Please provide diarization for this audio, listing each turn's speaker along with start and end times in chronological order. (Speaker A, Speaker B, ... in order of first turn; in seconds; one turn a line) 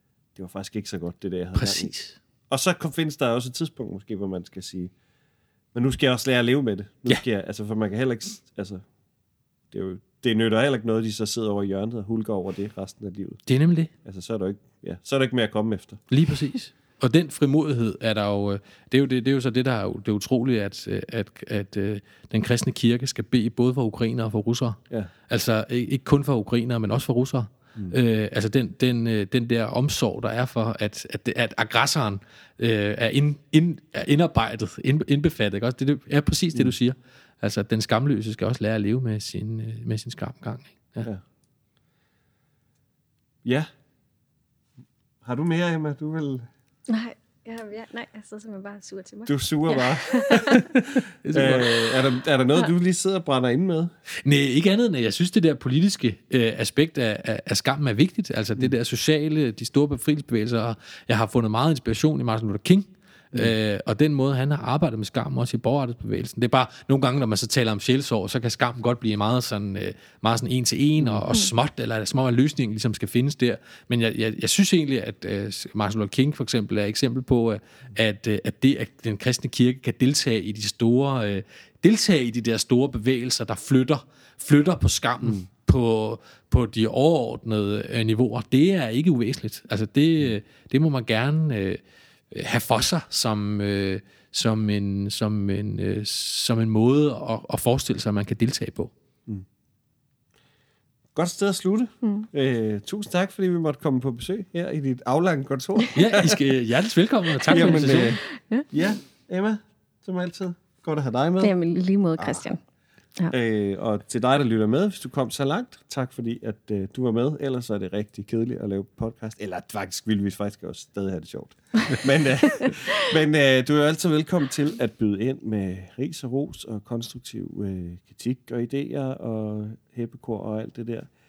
Speaker A: 0.3-1.9
Speaker B: 1.5-2.2
Speaker A: 2.5-4.9
Speaker A: 5.7-8.8
Speaker A: 9.7-13.4
Speaker B: 13.4-13.9
Speaker A: 14.0-16.0
Speaker B: 16.1-41.1
Speaker A: 45.2-46.5
Speaker C: 46.9-50.7
Speaker A: 49.2-50.6
Speaker B: 50.5-52.0
Speaker A: 51.3-53.9
Speaker B: 54.2-91.8
Speaker A: 71.0-71.2
Speaker B: 92.3-98.9
Speaker A: 101.1-106.4
Speaker B: 105.9-108.2
Speaker A: 107.5-111.5
Speaker C: 107.5-108.7
Speaker C: 111.4-112.6
Speaker A: 113.3-131.1